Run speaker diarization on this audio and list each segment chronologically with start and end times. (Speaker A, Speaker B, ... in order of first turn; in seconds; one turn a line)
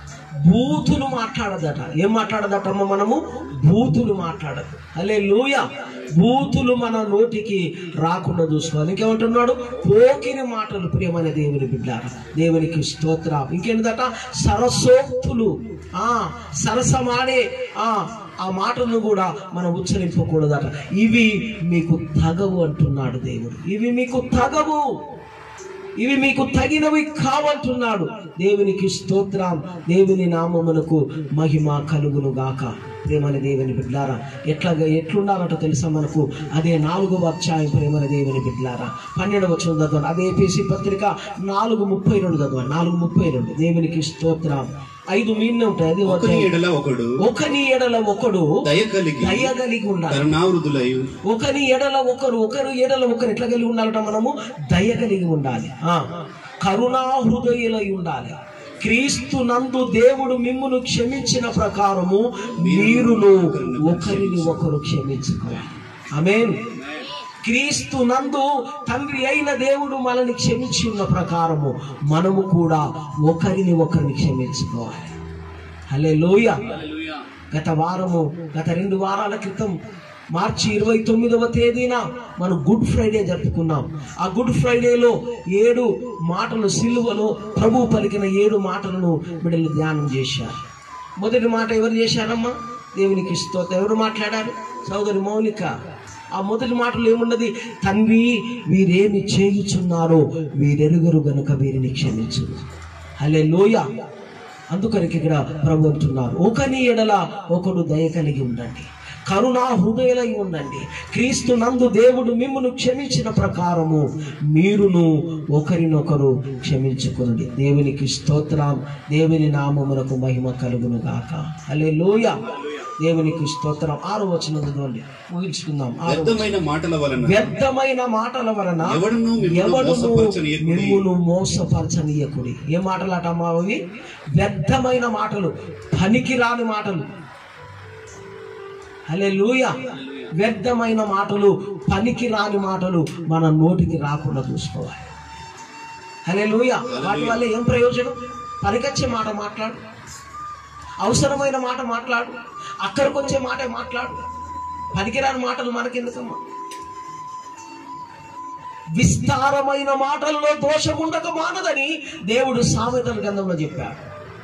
Speaker A: 0.4-24.8
Speaker A: 26.0-46.5
Speaker B: 46.0-47.1
Speaker A: 47.2-48.5
Speaker B: 48.6-49.5
Speaker A: 49.2-50.2
Speaker B: 50.1-51.1
Speaker A: 51.2-56.0
Speaker A: 56.6-66.6
Speaker B: 62.6-64.7
Speaker A: 67.4-75.1
Speaker A: 75.9-76.8
Speaker A: 77.5-79.8
Speaker A: 80.3-90.6
Speaker A: 91.2-95.7
Speaker A: 96.4-102.6
Speaker A: 103.2-103.8
Speaker A: 104.7-122.4
Speaker A: 123.0-126.5
Speaker B: 126.0-127.5
Speaker A: 127.2-133.8
Speaker B: 128.8-131.1
Speaker A: 134.3-137.0
Speaker A: 139.1-139.8
Speaker A: 140.3-145.1
Speaker A: 146.3-149.8
Speaker B: 146.9-147.4
Speaker A: 151.0-154.2
Speaker A: 154.9-156.4
Speaker A: 159.0-164.0